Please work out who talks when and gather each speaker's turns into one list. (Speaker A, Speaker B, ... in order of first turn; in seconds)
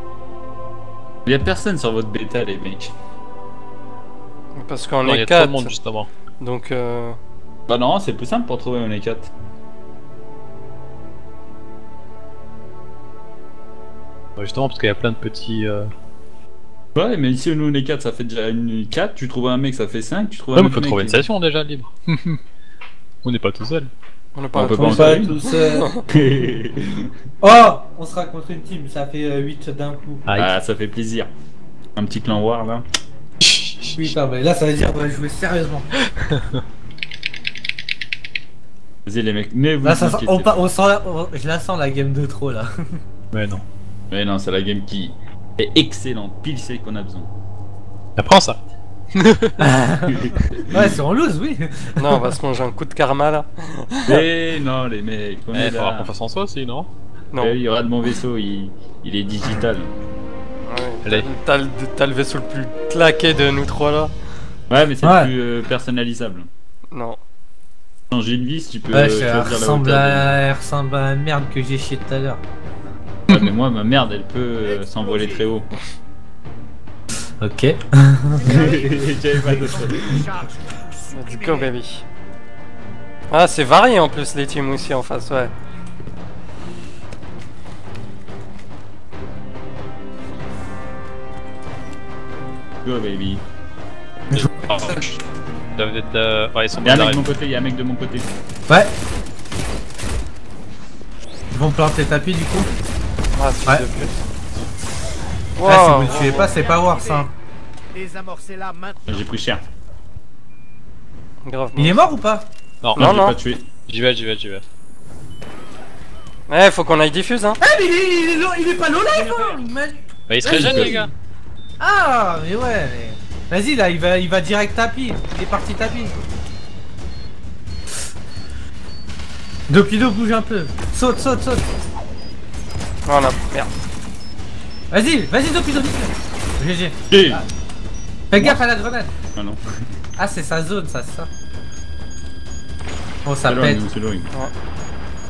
Speaker A: 1.2-2.9, 7.7-9.3, 16.9-21.3, 24.5-25.3, 26.1-27.1, 30.4-31.3, 31.9-32.9, 39.0-40.5, 44.1-47.3, 49.8-50.9, 54.1-56.1, 57.4-59.9, 64.7-66.5, 68.1-70.3, 73.3-75.7, 78.5-80.2, 92.8-93.4, 96.8-98.3, 109.0-109.6, 113.0-113.7, 120.5-121.0, 137.1-137.4, 138.3-138.6, 139.3-139.6, 143.4-144.3
Speaker B: 4.5-5.7, 6.4-7.2, 24.3-26.0, 52.0-54.2, 57.3-57.6, 60.6-64.1, 66.9-67.2, 81.1-82.0, 83.3-85.5, 103.3-104.0, 105.6-106.5, 111.4-112.1, 113.0-113.4, 116.5-117.6, 133.0-133.7
Speaker C: 5.0-6.1, 14.4-15.9, 20.5-22.4, 23.2-23.9, 30.2-30.5, 33.4-34.1, 36.2-36.6, 43.3-43.6, 48.2-48.6, 49.1-49.5, 55.5-56.9, 94.3-95.2, 95.7-97.2, 112.8-113.2, 113.9-114.6, 120.3-121.1
Speaker D: 24.7-25.9, 27.4-30.2, 34.0-35.9, 39.8-42.7, 49.6-52.4, 65.0-65.3, 68.9-72.4, 77.4-78.8, 79.4-79.8, 98.7-98.9, 101.5-102.7, 105.6-107.3, 111.7-112.5, 117.6-121.1, 121.8-126.1, 129.7-131.7, 134.9-137.4, 138.3-139.1, 140.2-141.3, 143.2-143.8
Speaker E: 74.6-75.5, 78.4-81.7, 106.1-107.3, 107.9-109.2